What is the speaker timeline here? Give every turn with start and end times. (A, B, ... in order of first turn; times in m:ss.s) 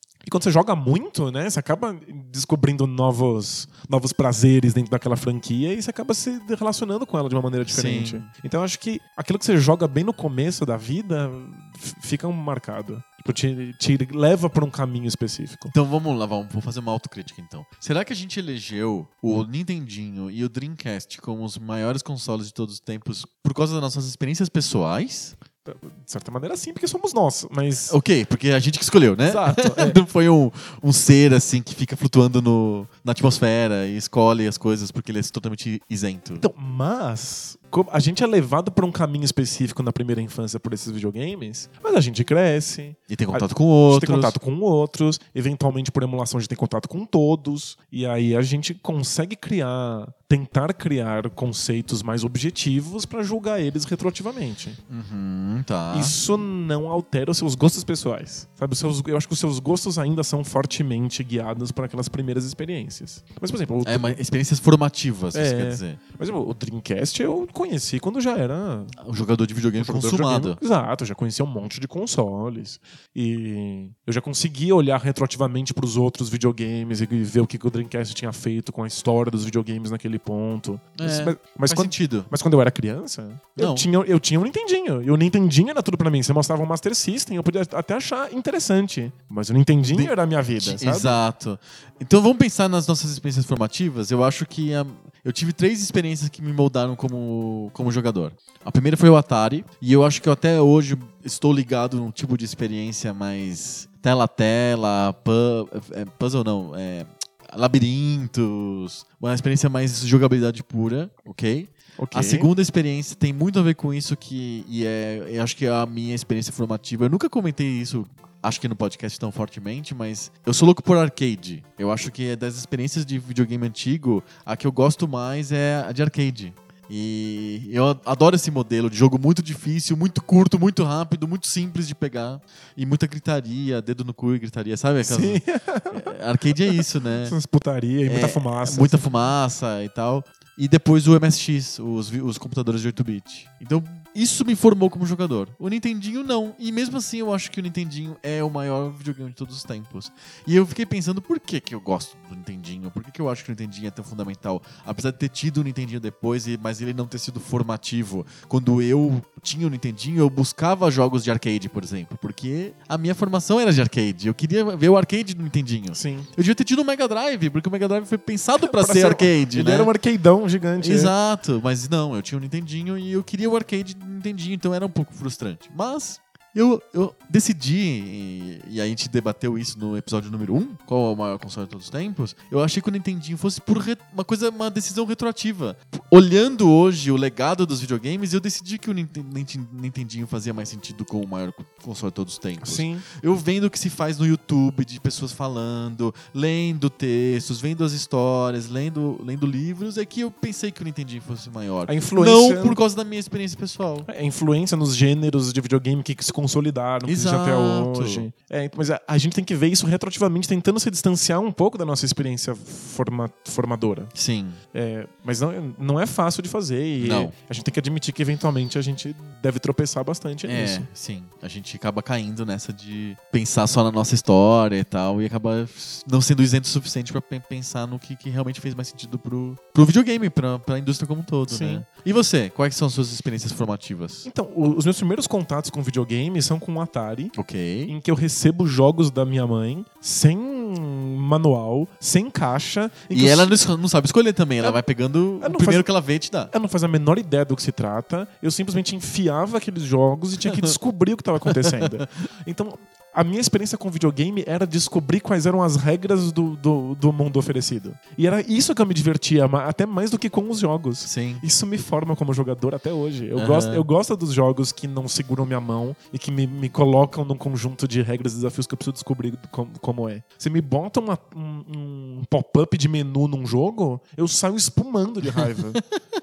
0:00.2-0:15.7 A
0:07.7-0:08.3 B
0:15.7-0:25.3 B
0:25.6-0:28.0 A
0:27.9-0:36.4 B
0:29.2-0:30.0 A
0:36.4-0:54.8 A
0:43.1-0:44.4 B
0:54.9-0:56.1 B
0:55.9-1:04.2 A
1:03.8-1:06.0 B
1:05.3-1:08.9 A
1:09.0-1:10.6 B
1:09.8-1:31.2 A
1:21.0-1:22.3 B
1:23.6-1:23.9 B
1:29.9-2:17.3 B
1:52.0-1:52.5 A
2:15.0-2:19.0 A
2:18.0-2:49.9 B
2:45.9-2:46.3 A
2:48.6-2:51.1 A
2:50.8-3:24.1 B
3:12.6-3:13.0 A
3:21.9-3:22.8 A
3:24.1-3:34.1 A
3:27.0-3:28.3 B
3:34.1-3:34.6 B
3:34.7-3:40.9 A
3:37.0-3:37.3 B
3:40.4-3:54.3 B
3:51.5-3:51.8 A
3:54.2-3:57.3 A
3:57.4-3:57.9 B
3:57.9-4:03.6 A
4:03.1-4:06.5 B
4:05.4-4:05.9 A
4:06.5-4:35.8 A
4:11.5-4:12.0 B
4:21.0-4:21.4 B
4:23.3-4:23.8 B